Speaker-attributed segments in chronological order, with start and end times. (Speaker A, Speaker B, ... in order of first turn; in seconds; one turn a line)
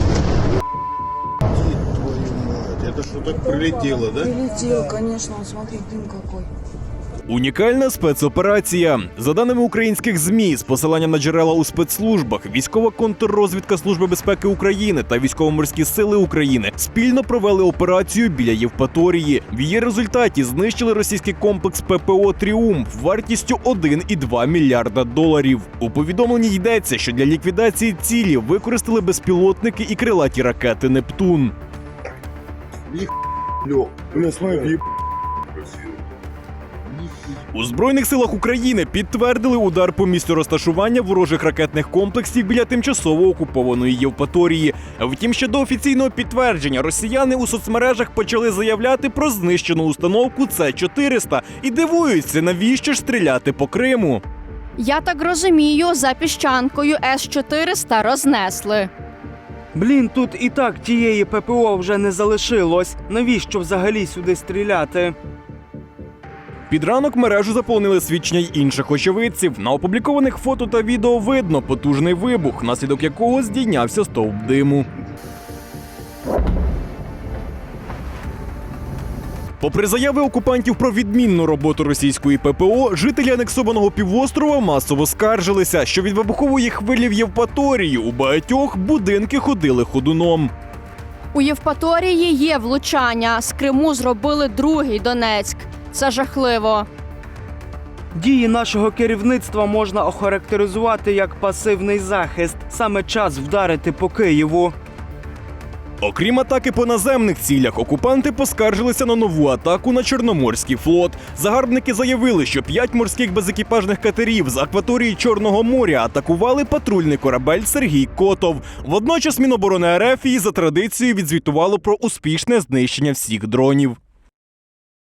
Speaker A: 1.7-4.4
Speaker B: 4.3-6.5
Speaker C: 7.3-31.5
Speaker A: 33.6-34.8
Speaker C: 37.5-54.2
Speaker D: 54.8-58.9
Speaker E: 59.7-65.2
Speaker C: 66.7-74.9
Speaker C: 79.6-90.5
Speaker D: 91.3-96.9
Speaker E: 98.1-104.8
Speaker C: 106.0-124.0